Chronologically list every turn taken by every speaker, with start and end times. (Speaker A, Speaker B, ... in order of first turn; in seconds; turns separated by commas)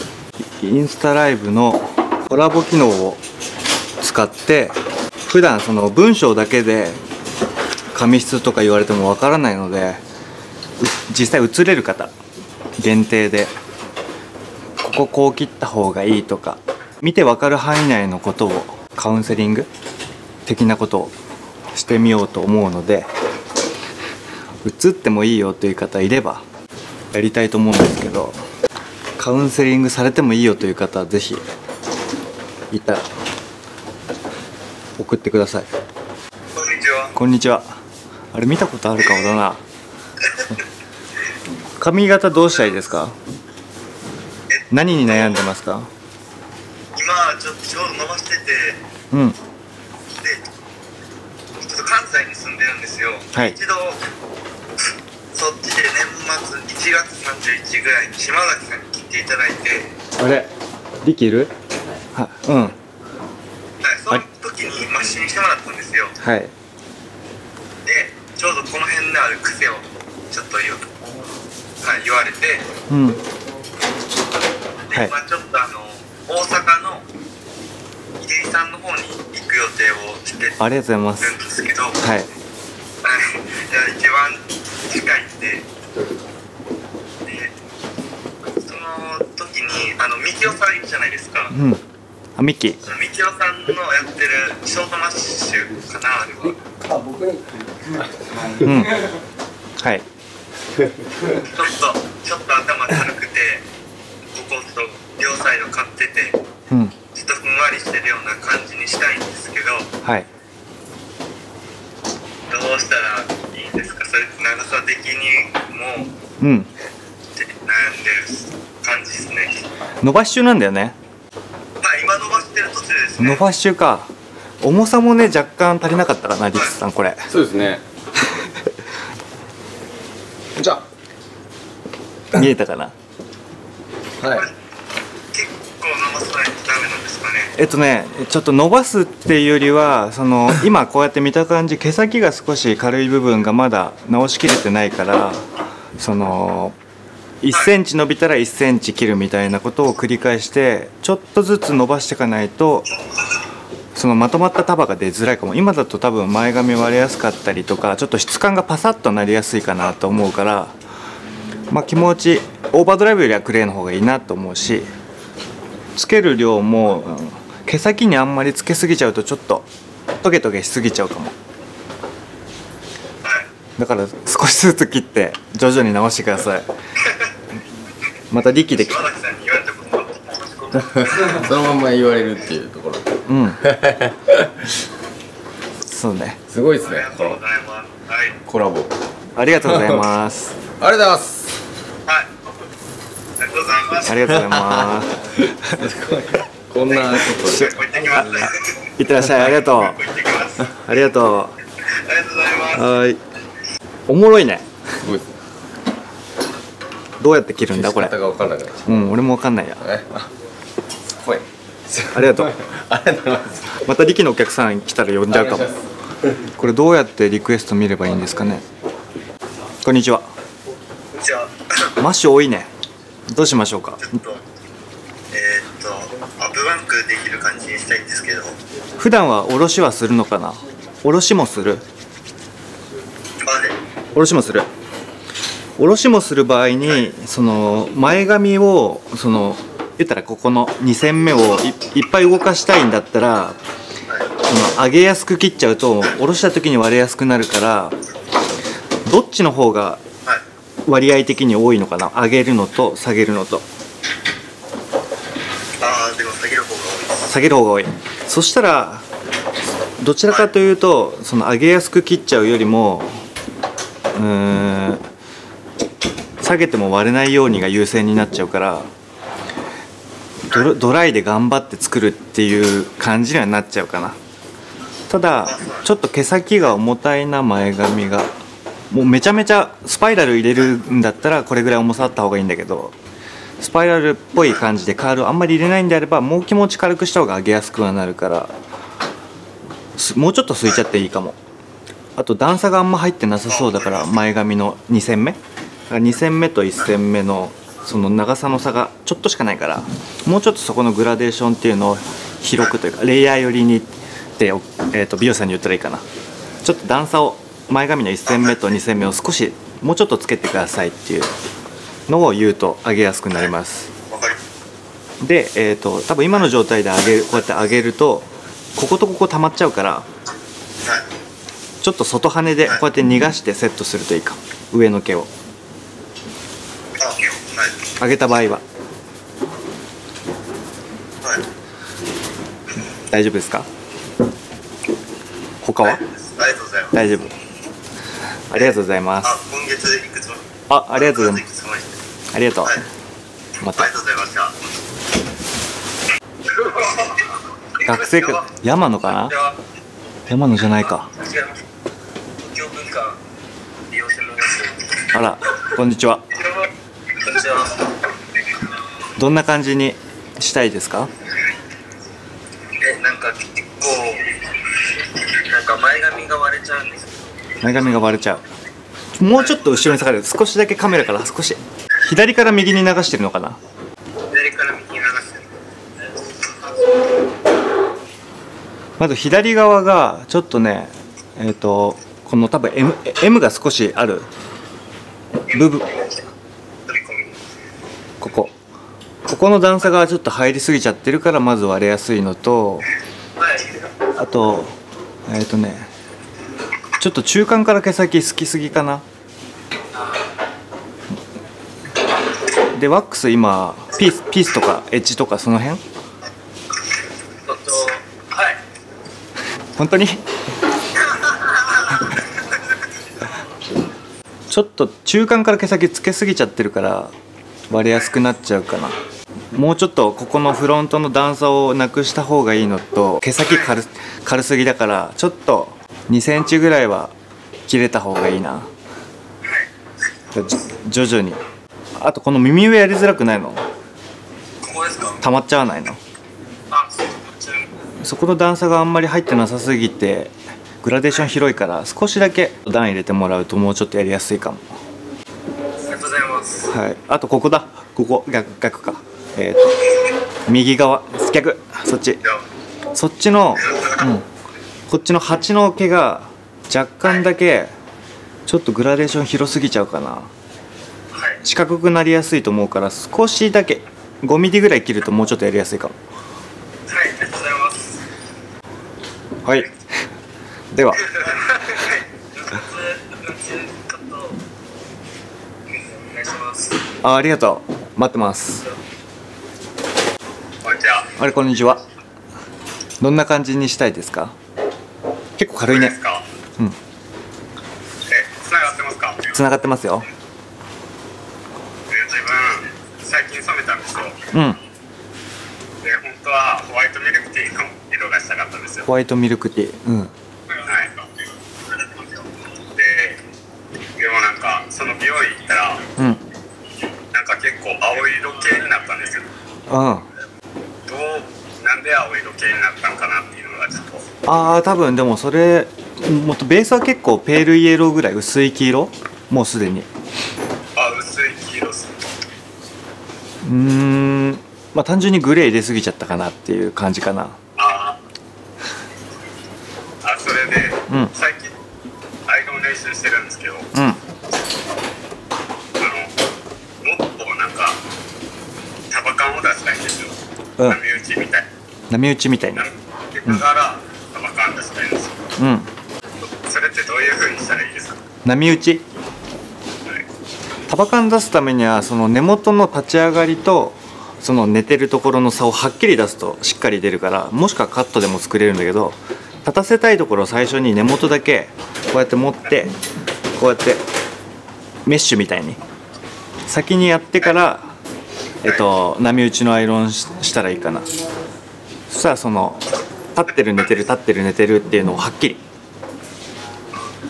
Speaker A: 0.4-3.2, Speaker A: 4.0-4.8, Speaker A: 5.3-7.0, Speaker A: 7.9-10.0, Speaker A: 10.8-12.1, Speaker A: 12.8-13.5, Speaker A: 14.8-19.7, Speaker A: 20.5-21.1, Speaker A: 21.7-23.1, Speaker A: 24.6-26.4, Speaker A: 27.1-28.4, Speaker A: 29.2-31.4, Speaker A: 32.7-33.1, Speaker A: 35.0-35.7, Speaker B: 36.5-37.1, Speaker A: 37.1-37.6, Speaker A: 38.3-39.6, Speaker A: 41.8-43.2, Speaker B: 44.5-45.5, Speaker A: 44.7-45.9, Speaker B: 46.9-48.8, Speaker A: 49.1-49.4, Speaker B: 50.2-50.5, Speaker B: 51.6-54.0, Speaker B: 55.3-59.9, Speaker A: 60.2-60.5, Speaker A: 61.0-61.5, Speaker A: 62.1-62.8, Speaker B: 63.8-66.2, Speaker A: 66.2-66.5, Speaker B: 67.8-70.9, Speaker B: 71.8-72.7, Speaker A: 72.9-73.2, Speaker B: 74.9-77.0, Speaker B: 78.2-80.6, Speaker A: 80.6-81.3, Speaker B: 81.2-82.0, Speaker A: 82.0-82.3, Speaker B: 83.0-85.7, Speaker B: 87.2-87.5, Speaker B: 88.5-91.5, Speaker A: 91.5-91.8, Speaker A: 92.4-92.9, Speaker B: 92.9-96.6, Speaker C: 96.8-98.8, Speaker A: 98.6-99.0, Speaker A: 99.8-100.0, Speaker B: 101.4-103.7, Speaker B: 104.3-106.4, Speaker B: 107.1-109.9, Speaker B: 112.5-116.1, Speaker A: 116.4-116.7, Speaker B: 117.4-119.6, Speaker A: 120.0-121.0, Speaker B: 121.8-123.5, Speaker A: 123.2-124.1, Speaker A: 124.6-127.3, Speaker C: 127.3-127.8, Speaker A: 128.3-128.6, Speaker C: 130.6-130.8, Speaker A: 132.3-132.9, Speaker C: 134.2-134.5, Speaker B: 134.2-134.5, Speaker B: 135.3-137.5, Speaker A: 137.6-145.4, Speaker A: 146.0-146.8, Speaker A: 147.4-152.9, Speaker A: 153.9-160.7, Speaker A: 161.7-164.9, Speaker A: 165.9-169.7, Speaker A: 170.2-171.3, Speaker B: 173.2-173.5, Speaker A: 173.8-176.7, Speaker A: 178.3-179.1, Speaker B: 178.7-181.5, Speaker C: 180.8-184.7, Speaker A: 183.3-183.7, Speaker A: 185.8-186.4, Speaker C: 186.5-187.4, Speaker B: 186.8-188.4, Speaker C: 188.5-189.0, Speaker A: 189.4-190.6, Speaker C: 190.8-191.5, Speaker B: 193.4-194.2, Speaker A: 194.1-195.2, Speaker C: 195.6-197.7, Speaker B: 196.8-198.7, Speaker A: 197.3-197.8, Speaker A: 198.8-200.0, Speaker B: 199.5-200.7, Speaker A: 200.7-201.5, Speaker B: 201.9-202.9, Speaker A: 202.7-203.2, Speaker A: 204.1-204.7, Speaker C: 205.0-205.3, Speaker A: 207.2-208.2, Speaker C: 207.7-208.9, Speaker A: 208.8-209.9, Speaker C: 209.8-210.3, Speaker C: 211.1-213.7, Speaker A: 212.1-212.6, Speaker A: 213.8-215.7, Speaker C: 215.3-215.8, Speaker A: 216.6-218.7, Speaker A: 219.8-220.3, Speaker B: 221.2-221.9, Speaker A: 222.0-222.7, Speaker A: 223.3-224.0, Speaker B: 224.0-224.4, Speaker B: 225.3-228.6, Speaker A: 229.0-231.8, Speaker B: 233.4-233.8, Speaker A: 234.1-234.7, Speaker A: 235.8-243.6, Speaker A: 244.4-248.0, Speaker A: 249.1-250.0, Speaker A: 250.9-253.7, Speaker B: 255.8-257.3, Speaker A: 257.3-259.1, Speaker A: 260.0-263.2, Speaker A: 264.1-265.0, Speaker A: 266.4-268.9, Speaker A: 270.5-274.2, Speaker A: 275.1-278.3, Speaker B: 275.4-275.9, Speaker A: 278.9-282.9, Speaker A: 283.6-288.5, Speaker A: 290.0-291.4, Speaker A: 292.2-295.4, Speaker B: 293.5-293.9, Speaker A: 295.9-306.0, Speaker A: 306.6-311.3, Speaker A: 312.1-313.9, Speaker B: 314.1-314.4, Speaker A: 315.2-320.1, Speaker A: 321.8-325.3, Speaker B: 327.0-327.8, Speaker A: 328.0-328.6, Speaker A: 333.1-333.7, Speaker A: 335.6-336.0, Speaker B: 335.8-336.9, Speaker A: 336.9-337.3, Speaker A: 338.5-339.4, Speaker B: 338.5-341.9, Speaker A: 340.7-341.4, Speaker A: 342.3-342.8, Speaker A: 343.6-343.9, Speaker B: 343.7-344.6, Speaker B: 346.5-348.4, Speaker A: 347.8-349.3, Speaker B: 349.1-349.6, Speaker A: 350.3-351.1, Speaker B: 350.8-351.6, Speaker B: 352.4-353.2, Speaker B: 353.9-355.0, Speaker A: 355.1-356.2, Speaker B: 356.4-358.0, Speaker A: 359.2-361.1, Speaker B: 362.8-367.1, Speaker A: 367.6-368.4, Speaker A: 369.2-373.6, Speaker B: 369.4-369.8, Speaker B: 374.3-375.5, Speaker B: 376.2-376.7, Speaker A: 379.0-384.3, Speaker A: 385.5-386.1, Speaker B: 385.5-385.8, Speaker B: 386.9-387.4, Speaker A: 388.2-388.5, Speaker A: 389.3-392.9, Speaker B: 393.4-393.8, Speaker A: 394.2-394.8, Speaker A: 395.3-395.9, Speaker A: 397.0-399.0, Speaker A: 402.7-405.8, Speaker B: 407.4-408.6, Speaker A: 409.8-410.2, Speaker B: 411.1-413.3, Speaker A: 414.5-417.1, Speaker A: 417.7-418.9, Speaker A: 419.5-427.1, Speaker B: 423.4-423.7, Speaker A: 427.7-428.7, Speaker B: 429.4-429.7, Speaker A: 430.3-431.4, Speaker A: 432.0-433.6, Speaker B: 434.6-435.2, Speaker A: 435.2-436.0, Speaker B: 436.7-437.7, Speaker A: 438.0-444.7, Speaker B: 445.8-446.7, Speaker A: 446.7-449.9, Speaker A: 450.5-452.2, Speaker A: 452.9-454.3, Speaker B: 453.7-454.0, Speaker A: 454.9-457.7, Speaker A: 458.5-460.3, Speaker B: 461.1-461.4, Speaker A: 461.4-465.9, Speaker B: 466.9-468.0, Speaker A: 469.4-469.7, Speaker A: 470.7-471.1, Speaker B: 471.0-474.4, Speaker B: 475.7-476.8, Speaker A: 477.0-478.7, Speaker B: 480.6-481.2, Speaker A: 481.2-481.8, Speaker A: 483.0-484.4, Speaker A: 485.4-486.0, Speaker B: 485.7-486.3, Speaker B: 488.1-489.4, Speaker A: 489.3-490.1, Speaker B: 491.9-494.3, Speaker A: 494.3-494.6, Speaker B: 495.8-498.9, Speaker A: 498.9-500.1, Speaker B: 500.6-501.1, Speaker B: 502.7-503.2, Speaker B: 504.0-505.9, Speaker A: 506.0-506.2, Speaker B: 507.1-509.3, Speaker A: 509.7-510.1, Speaker B: 510.9-514.1, Speaker A: 514.3-519.9, Speaker B: 520.8-522.1, Speaker A: 523.4-527.4, Speaker B: 527.6-528.0, Speaker B: 530.0-531.5, Speaker B: 532.3-533.7, Speaker A: 533.7-534.0, Speaker B: 535.8-536.1, Speaker B: 536.8-537.8, Speaker B: 538.9-540.1, Speaker B: 540.6-541.5, Speaker A: 541.9-542.7, Speaker B: 542.6-545.2, Speaker A: 545.4-545.7, Speaker B: 546.5-548.0, Speaker A: 548.2-548.9, Speaker A: 550.7-562.7, Speaker A: 563.4-563.8, Speaker A: 564.9-565.6, Speaker A: 566.5-567.7, Speaker A: 568.4-570.9, Speaker A: 571.9-575.4